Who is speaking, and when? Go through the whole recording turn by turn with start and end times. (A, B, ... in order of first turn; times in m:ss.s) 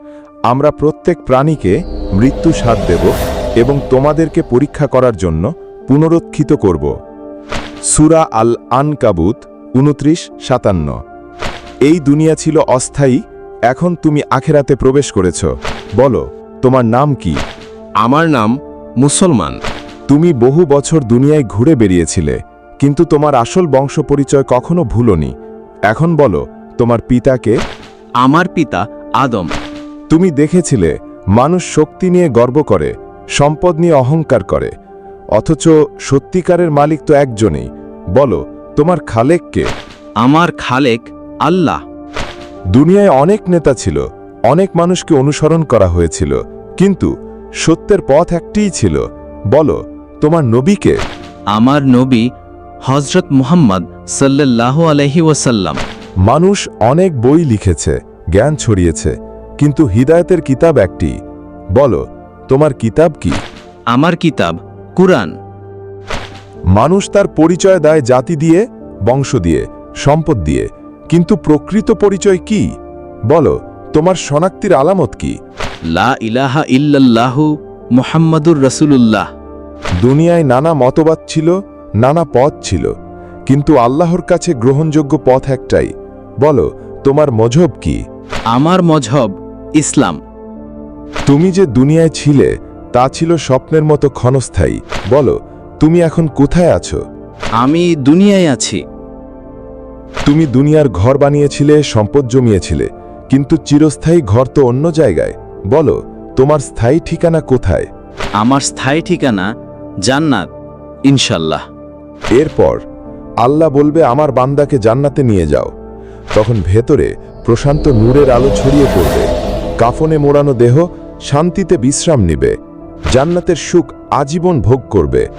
0:00.5-0:06.9 A
0:07.9-0:11.0 A
0:11.8-0:17.4 A
0:18.0-0:19.6 B
0:20.1-0:25.3 A
0:25.9-0:27.6 A
0:28.2-0:29.5 B
0:30.1-0:34.7 A
0:35.4-0:39.7 A
0:40.2-0:41.8 B
0:42.7-0:47.1 A
0:47.6-0:51.0 A
0:51.5-0:52.2 B
0:52.8-0:55.8 B
0:56.3-1:01.1 A
1:01.8-1:03.4 A
1:03.9-1:05.3 B
1:06.8-1:12.6 A
1:13.3-1:15.4 A
1:15.9-1:19.2 B
1:20.0-1:22.9 A
1:23.5-1:25.9 A
1:26.4-1:28.0 A
1:28.5-1:30.2 B
1:31.3-1:37.0 A
1:37.6-1:38.8 B
1:40.2-1:47.9 A
1:48.4-1:49.5 B
1:50.0-1:50.5 B
1:51.0-1:51.6 B
1:52.4-1:52.8 A
1:53.4-1:55.7 A
1:56.4-1:59.3 A
1:59.8-2:02.6 A
2:03.1-2:05.3 A